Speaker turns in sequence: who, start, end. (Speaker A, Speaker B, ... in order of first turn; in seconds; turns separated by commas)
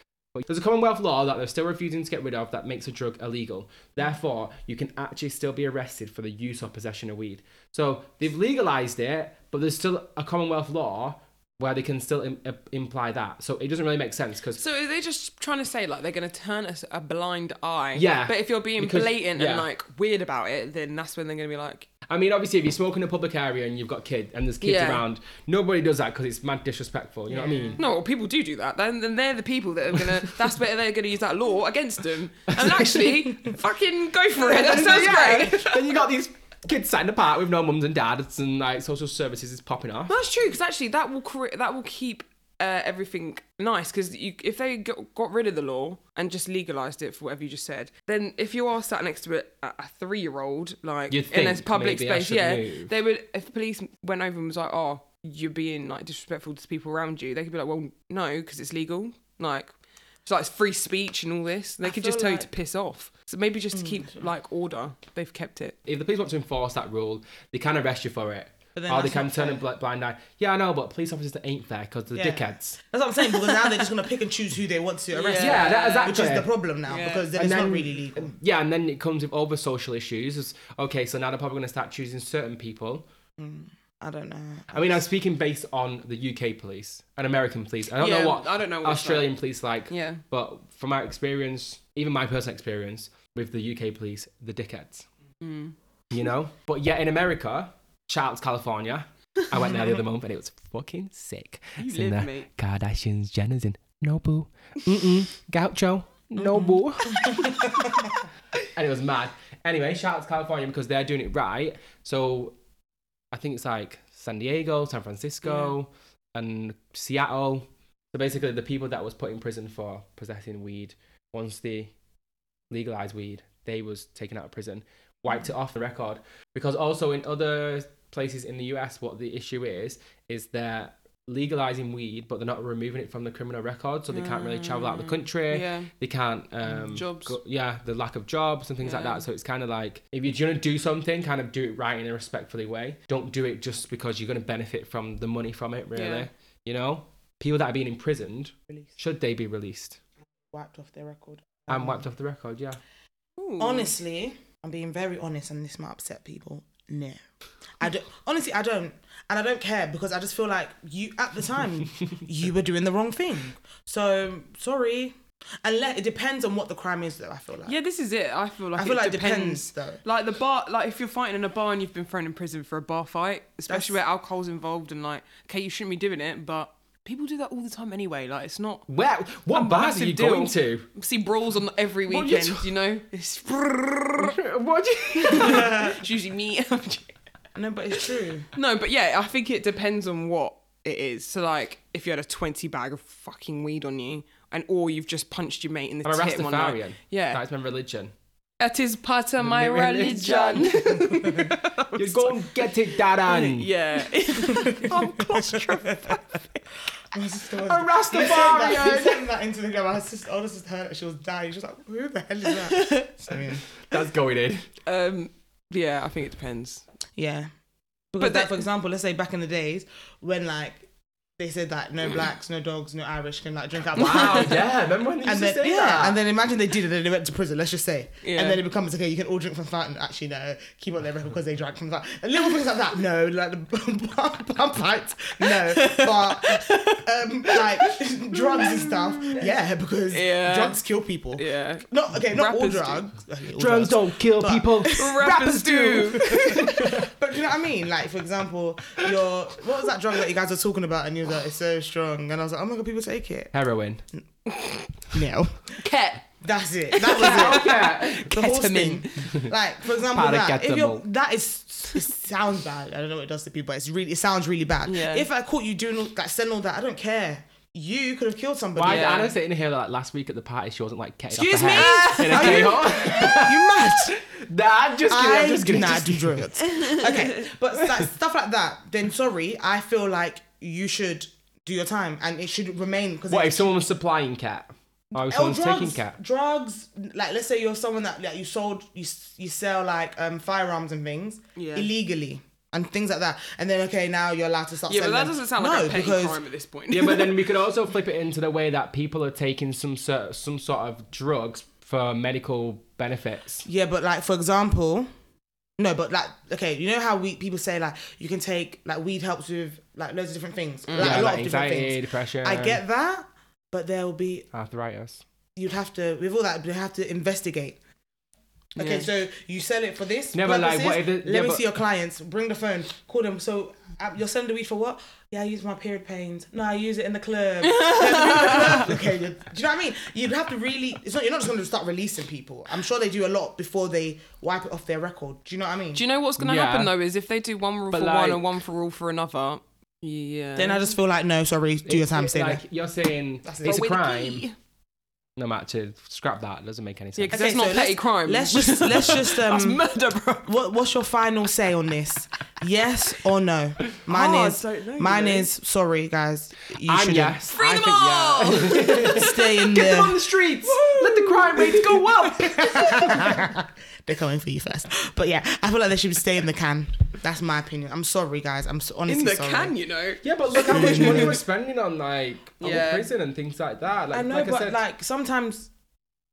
Speaker A: 0.3-14.6, Speaker B: 14.6-21.9, Speaker A: 17.9-19.7, Speaker A: 22.1-27.8, Speaker B: 24.6-25.0, Speaker C: 27.3-27.8, Speaker B: 27.8-35.9, Speaker A: 32.5-33.2, Speaker A: 34.4-40.2, Speaker B: 40.1-59.7, Speaker A: 51.1-52.9, Speaker B: 60.2-65.8, Speaker C: 61.8-62.5, Speaker C: 63.7-64.2, Speaker A: 65.8-72.8, Speaker C: 68.7-69.6, Speaker C: 72.1-78.3, Speaker B: 73.3-73.8, Speaker B: 75.1-76.2, Speaker A: 75.4-76.5, Speaker B: 76.9-77.3, Speaker A: 77.3-83.1, Speaker C: 83.4-85.0, Speaker A: 84.7-95.1, Speaker B: 88.0-89.3, Speaker B: 89.9-90.2, Speaker B: 95.4-95.7, Speaker A: 96.1-107.9, Speaker B: 101.8-102.5, Speaker C: 106.4-108.1, Speaker A: 108.7-112.5, Speaker A: 113.3-121.9, Speaker B: 115.5-115.7, Speaker A: 122.7-150.0, Speaker B: 134.1-135.9, Speaker B: 136.7-137.4, Speaker B: 138.8-139.2, Speaker B: 145.9-146.3, Speaker C: 150.5-152.1, Speaker A: 151.7-152.8, Speaker B: 153.4-153.9, Speaker C: 153.6-157.2, Speaker C: 157.8-167.8, Speaker B: 167.7-178.9, Speaker C: 168.8-170.0, Speaker C: 173.7-174.0, Speaker A: 178.9-180.9, Speaker B: 179.5-184.4, Speaker A: 182.1-182.7, Speaker A: 184.2-185.8, Speaker B: 185.2-187.1, Speaker C: 185.4-185.9, Speaker C: 187.5-188.5, Speaker B: 188.0-197.4, Speaker A: 196.0-198.1, Speaker B: 198.6-206.5, Speaker A: 199.4-203.7, Speaker C: 201.1-201.5, Speaker C: 204.4-206.2, Speaker C: 207.1-213.7, Speaker A: 207.6-209.2, Speaker B: 208.2-208.8, Speaker B: 212.5-213.1, Speaker A: 213.8-214.7, Speaker B: 214.8-216.8, Speaker C: 217.2-217.5, Speaker C: 218.1-220.9, Speaker B: 218.2-218.6, Speaker C: 221.4-224.7, Speaker A: 223.9-226.2, Speaker B: 224.1-224.5, Speaker C: 225.2-245.4, Speaker B: 228.2-228.6, Speaker B: 235.4-239.5, Speaker B: 240.1-240.8, Speaker B: 241.3-243.0, Speaker A: 243.6-247.1, Speaker B: 244.9-246.9, Speaker C: 245.9-253.5, Speaker A: 253.5-254.0, Speaker B: 254.5-254.9, Speaker C: 255.1-255.8, Speaker B: 255.8-256.3, Speaker C: 256.4-269.2, Speaker B: 256.9-259.3, Speaker A: 257.2-258.3, Speaker A: 259.2-259.5, Speaker A: 260.1-261.0, Speaker B: 264.8-265.3, Speaker A: 268.8-276.4, Speaker B: 268.8-269.3, Speaker C: 271.3-274.2, Speaker B: 271.7-272.9, Speaker C: 275.1-283.7, Speaker B: 276.6-277.5, Speaker A: 283.3-286.1, Speaker C: 285.2-296.4, Speaker B: 291.6-291.9, Speaker B: 294.9-297.4, Speaker A: 296.9-303.6, Speaker C: 303.6-305.1, Speaker C: 305.8-314.5, Speaker B: 310.9-311.2, Speaker A: 311.0-312.8, Speaker A: 314.5-315.2, Speaker C: 315.6-317.8, Speaker C: 318.8-336.0, Speaker B: 318.8-319.1, Speaker A: 320.3-321.6, Speaker B: 327.6-328.9, Speaker B: 335.9-341.0, Speaker A: 336.4-336.9, Speaker A: 337.9-338.5, Speaker C: 340.6-342.6, Speaker A: 341.9-344.4, Speaker C: 343.4-343.8, Speaker B: 343.6-344.5, Speaker A: 345.4-347.4, Speaker B: 347.2-350.5, Speaker C: 347.3-349.8, Speaker C: 350.4-357.4, Speaker B: 354.0-355.5, Speaker A: 356.9-363.4, Speaker B: 357.5-360.0, Speaker C: 358.9-360.2, Speaker B: 360.6-363.3, Speaker C: 362.4-369.8, Speaker B: 369.1-371.4, Speaker A: 370.2-374.8, Speaker C: 370.6-371.4, Speaker B: 372.6-373.1, Speaker C: 374.1-375.7